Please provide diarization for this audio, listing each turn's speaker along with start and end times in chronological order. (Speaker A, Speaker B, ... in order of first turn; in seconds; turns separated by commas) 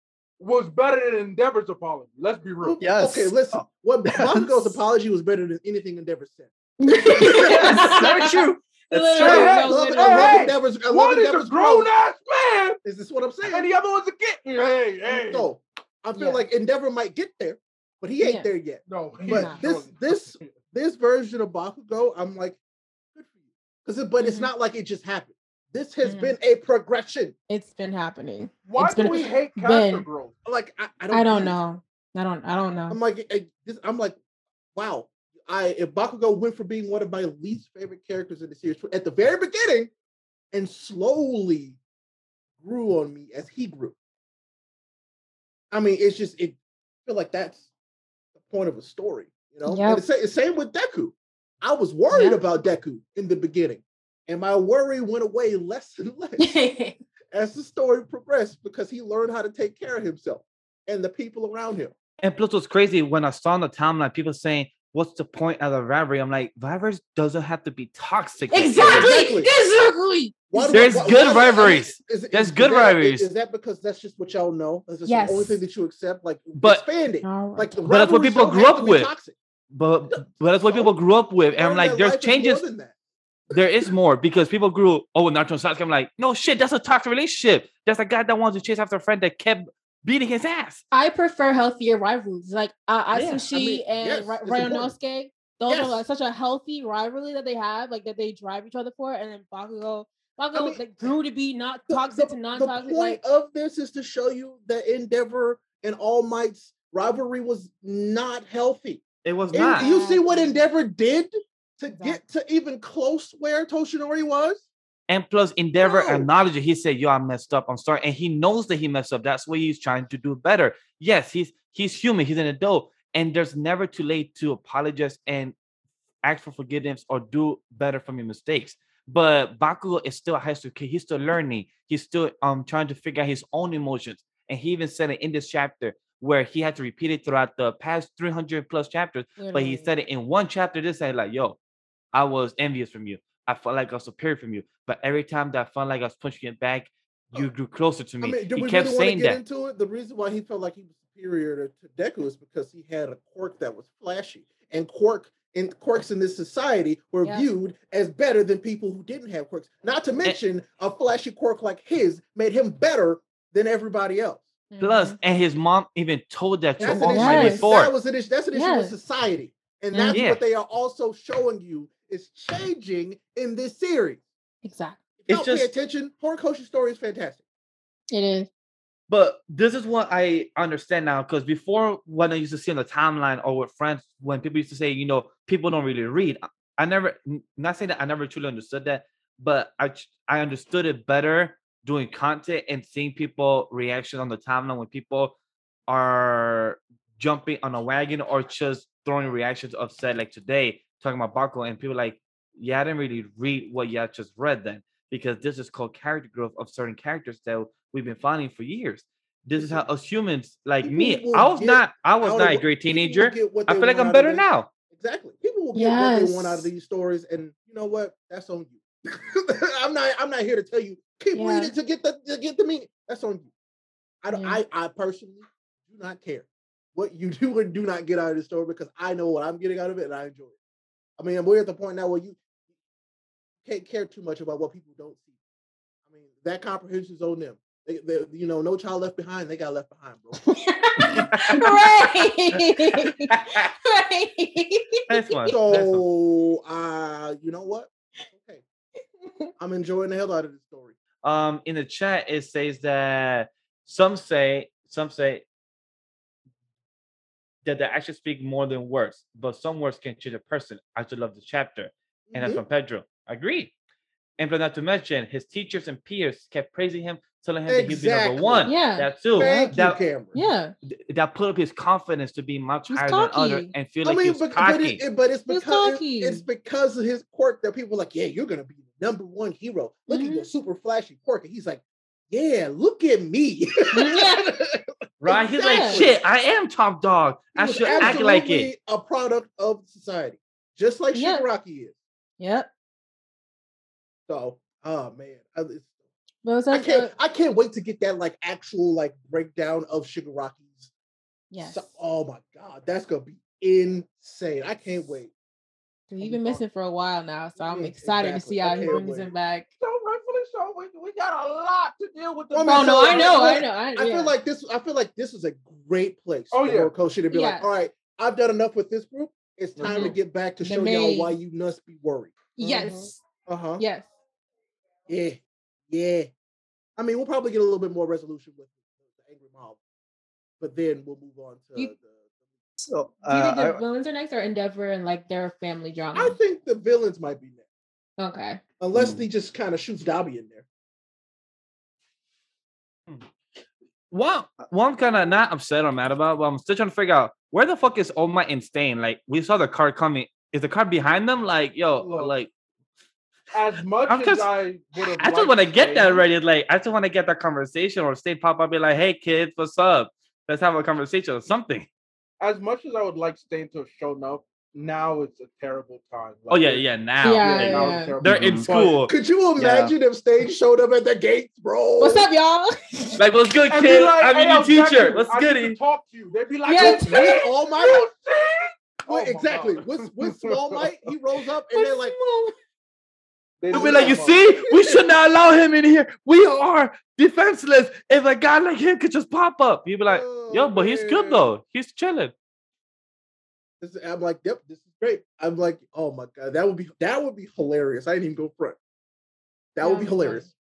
Speaker A: 0.4-2.8, Speaker B: 2.6-7.9, Speaker C: 2.8-4.8, Speaker D: 6.8-8.4, Speaker C: 7.1-9.5, Speaker D: 8.9-10.4, Speaker B: 9.2-11.9, Speaker A: 9.2-12.8, Speaker B: 12.8-13.7, Speaker A: 13.4-15.5, Speaker B: 15.1-22.6, Speaker D: 16.1-16.4, Speaker D: 18.2-18.5, Speaker A: 18.9-20.5, Speaker D: 19.2-19.6, Speaker B: 23.8-27.4, Speaker D: 24.2-24.5, Speaker D: 26.0-26.4, Speaker D: 27.5-30.1, Speaker A: 28.7-30.3, Speaker B: 30.4-31.6, Speaker D: 31.1-33.0, Speaker B: 32.9-34.2, Speaker B: 34.7-39.9, Speaker B: 40.5-41.8, Speaker B: 42.6-43.9, Speaker B: 45.7-47.7, Speaker B: 48.4-56.5, Speaker D: 49.6-50.0, Speaker D: 52.1-52.4, Speaker D: 56.4-57.0, Speaker B: 57.3-61.9, Speaker E: 62.2-69.5, Speaker D: 68.5-71.6, Speaker B: 68.8-69.5, Speaker B: 70.5-79.4, Speaker E: 70.7-73.3, Speaker D: 75.1-75.6, Speaker E: 76.6-76.8, Speaker D: 77.2-77.8, Speaker E: 77.9-79.1, Speaker E: 79.7-82.6, Speaker B: 80.1-80.9, Speaker B: 81.6-82.9, Speaker E: 83.5-90.8, Speaker D: 90.9-103.2, Speaker E: 93.1-93.4, Speaker B: 93.5-94.9, Speaker B: 95.7-96.0, Speaker B: 100.5-101.1, Speaker B: 101.9-114.7, Speaker E: 109.2-109.9, Speaker D: 109.7-110.6, Speaker D: 111.9-112.2, Speaker E: 115.1-125.5, Speaker B: 115.8-116.3, Speaker E: 126.2-141.6, Speaker D: 139.4-139.9, Speaker E: 142.1-149.4, Speaker B: 148.2-164.5, Speaker D: 164.7-165.2, Speaker E: 164.8-167.9, Speaker D: 166.8-167.7, Speaker B: 166.8-174.2, Speaker D: 168.5-168.9, Speaker D: 169.9-170.2, Speaker E: 170.1-170.4, Speaker D: 174.6-175.0, Speaker B: 175.2-177.4, Speaker E: 175.3-175.7, Speaker D: 178.1-178.5, Speaker E: 179.1-195.3, Speaker E: 195.9-214.7, Speaker B: 209.6-209.8, Speaker B: 210.8-223.5, Speaker D: 215.7-216.7, Speaker D: 221.3-221.7, Speaker B: 224.2-230.6, Speaker D: 224.3-224.6, Speaker B: 231.2-232.4, Speaker B: 233.6-235.3, Speaker B: 236.1-240.4, Speaker D: 240.4-245.5, Speaker E: 241.3-241.9, Speaker E: 243.3-243.7, Speaker E: 245.1-246.0, Speaker B: 245.5-248.6, Speaker D: 249.2-249.5, Speaker B: 249.6-250.9, Speaker E: 251.2-255.4, Speaker E: 257.6-263.7, Speaker B: 262.3-262.6, Speaker E: 264.4-270.0, Speaker B: 267.7-268.7, Speaker D: 268.6-269.7, Speaker B: 269.3-270.4, Speaker D: 270.3-270.7, Speaker E: 270.9-275.0, Speaker D: 272.9-273.7, Speaker B: 274.0-286.2, Speaker D: 275.5-276.4, Speaker D: 280.1-280.5, Speaker D: 283.9-284.6, Speaker E: 285.2-288.7, Speaker D: 285.6-286.0, Speaker B: 287.6-291.9, Speaker D: 287.9-288.2, Speaker D: 291.1-291.4, Speaker D: 292.4-292.7, Speaker B: 294.3-295.9, Speaker D: 296.4-297.1, Speaker B: 296.7-300.9, Speaker D: 301.5-301.9, Speaker B: 301.6-305.3, Speaker D: 306.1-309.7, Speaker B: 306.2-306.6, Speaker B: 307.6-309.3, Speaker A: 309.8-313.4, Speaker B: 312.5-322.6, Speaker D: 312.7-314.3, Speaker A: 316.5-316.9, Speaker D: 317.3-317.7, Speaker A: 319.8-320.1, Speaker D: 319.9-321.4, Speaker D: 322.6-323.2, Speaker A: 322.6-323.1, Speaker B: 323.4-323.8, Speaker D: 323.8-324.1, Speaker B: 325.1-326.3, Speaker B: 327.0-329.8, Speaker B: 330.6-332.2, Speaker C: 332.8-333.8, Speaker D: 333.2-336.4, Speaker B: 336.1-337.6, Speaker D: 338.2-338.6, Speaker B: 338.8-340.6, Speaker C: 338.9-339.2, Speaker E: 344.1-352.5, Speaker A: 352.0-352.3, Speaker A: 353.5-356.2, Speaker E: 354.1-354.5, Speaker E: 355.2-361.9, Speaker A: 362.4-366.8, Speaker E: 366.5-369.1, Speaker D: 367.2-368.1, Speaker A: 367.4-369.0, Speaker C: 368.3-368.8, Speaker B: 368.9-372.3, Speaker C: 369.6-369.9, Speaker D: 372.0-373.2, Speaker E: 373.2-375.8, Speaker A: 373.7-380.9, Speaker D: 376.6-377.4, Speaker B: 376.8-378.1, Speaker B: 379.1-382.1, Speaker D: 381.7-382.6, Speaker A: 383.6-384.4, Speaker B: 383.7-385.0, Speaker E: 383.7-392.3, Speaker B: 390.1-391.4, Speaker B: 393.8-398.8, Speaker B: 399.7-400.5, Speaker D: 399.8-400.5